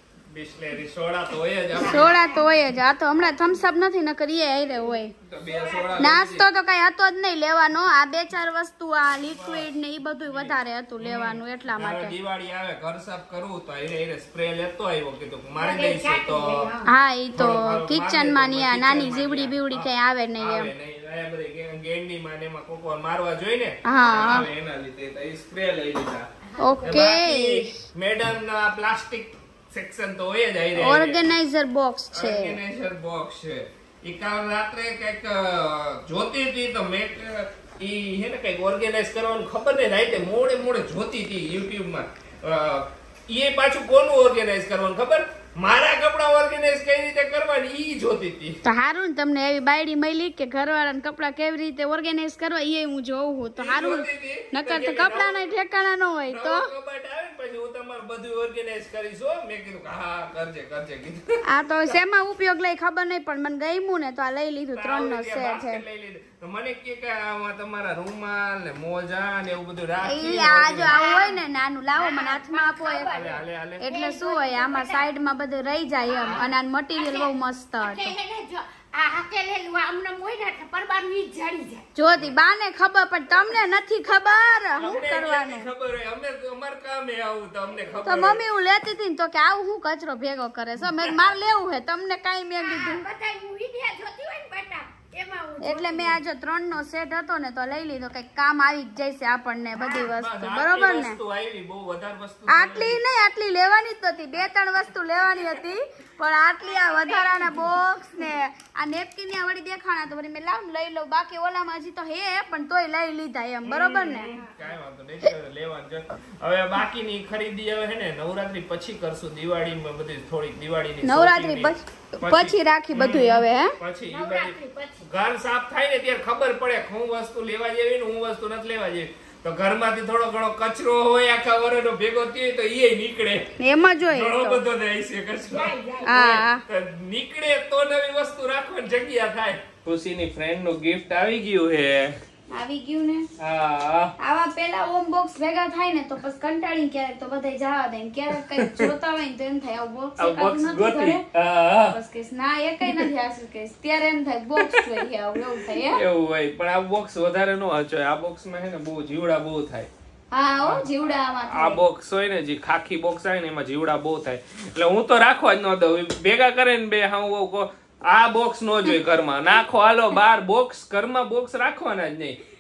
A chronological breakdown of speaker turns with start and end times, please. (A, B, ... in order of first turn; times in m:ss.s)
0:00.3-0:02.1 A
0:01.7-0:02.5 B
0:01.8-0:05.1 C
0:03.2-0:03.6 B
0:05.2-0:06.4 A
0:05.4-0:06.1 B
0:06.0-0:12.1 C
0:09.3-0:09.6 A
0:10.3-0:16.7 A
0:15.6-0:16.9 B
0:16.8-0:20.7 C
0:17.4-0:26.3 A
0:23.8-0:24.5 C
0:26.4-0:27.0 B
0:26.6-0:27.7 C
0:26.8-0:31.2 A
0:30.8-0:32.6 C
0:32.1-0:48.6 A
0:48.6-0:56.7 C
0:53.6-0:55.6 A
0:56.3-1:02.0 A
1:01.5-1:05.8 C
1:04.7-1:10.9 A
1:10.0-1:13.1 C
1:10.9-1:11.4 B
1:12.0-1:15.1 B
1:13.1-1:13.8 A
1:13.8-1:18.1 C
1:16.1-1:21.8 B
1:22.0-1:25.7 C
1:24.8-1:28.4 A
1:28.1-1:33.1 C
1:32.6-1:36.2 B
1:35.6-1:41.2 C
1:39.8-1:43.0 A
1:42.5-1:54.3 C
1:46.6-1:47.9 B
1:53.6-2:13.5 A
2:01.0-2:03.8 C
2:04.1-2:05.0 B
2:13.6-2:14.6 C
2:14.1-2:22.2 A
2:15.5-2:16.2 B
2:16.0-2:16.6 C
2:22.5-2:23.3 C
2:23.4-2:24.1 A
2:24.2-2:31.2 C
2:28.4-2:28.9 A
2:30.2-2:32.0 A
2:31.9-2:36.0 C
2:34.6-2:35.0 A
2:35.5-2:39.9 A
2:40.3-2:41.8 C
2:41.5-2:52.4 A